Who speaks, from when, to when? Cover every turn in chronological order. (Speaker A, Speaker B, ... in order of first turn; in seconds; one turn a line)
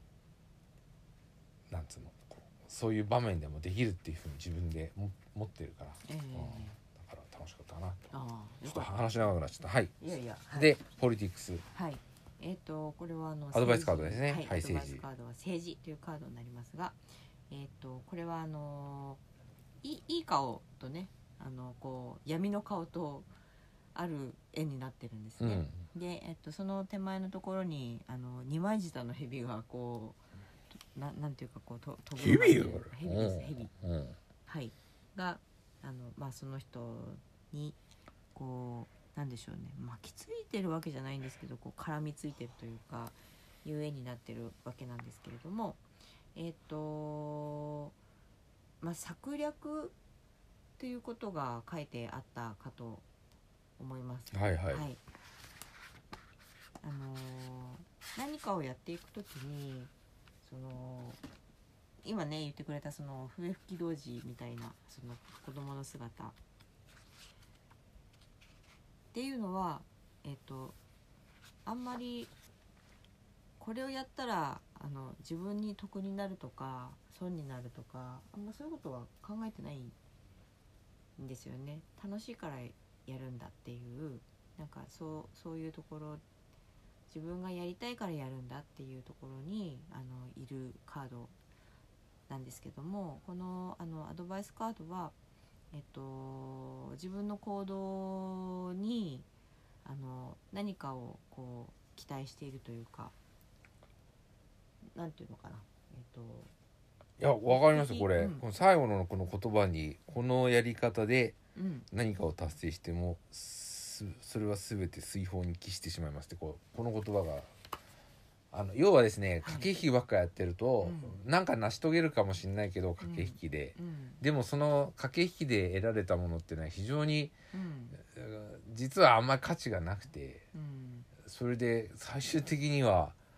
Speaker A: 1.7-8.1
Speaker B: 6.0-6.8
Speaker B: 8.1-9.1
Speaker A: 8.7-10.0
Speaker B: 10.0-10.8
Speaker A: 10.5-11.7
Speaker B: 11.7-19.2
Speaker A: 13.5-15.1
Speaker B: 19.8-23.3
Speaker B: 23.9-30.2
Speaker A: 25.4-25.9
Speaker B: 30.7-33.7
Speaker A: 32.2-34.2
Speaker B: 34.5-37.8
Speaker B: 38.3-45.8
Speaker B: 46.4-47.9
Speaker B: 48.8-50.0
Speaker B: 50.8-53.0
Speaker B: 53.8-55.0
Speaker A: 54.3-54.9
Speaker B: 56.8-59.9
Speaker B: 60.4-61.2
Speaker B: 62.0-66.4
Speaker B: 69.1-70.8
Speaker B: 71.7-72.3
Speaker B: 73.6-80.0
Speaker B: 81.2-86.2
Speaker B: 87.1-91.3
Speaker B: 92.3-95.2
Speaker B: 95.7-99.3
Speaker B: 99.8-103.2
Speaker B: 104.9-106.5
Speaker A: 107.2-111.4
Speaker B: 107.5-108.4
Speaker B: 111.5-111.9
Speaker A: 111.9-117.5
Speaker A: 118.5-127.4
Speaker B: 119.4-119.7
Speaker B: 120.8-121.2
Speaker B: 123.0-124.2
Speaker B: 127.5-128.0
Speaker A: 128.0-130.5
Speaker B: 130.5-131.1
Speaker A: 131.2-133.2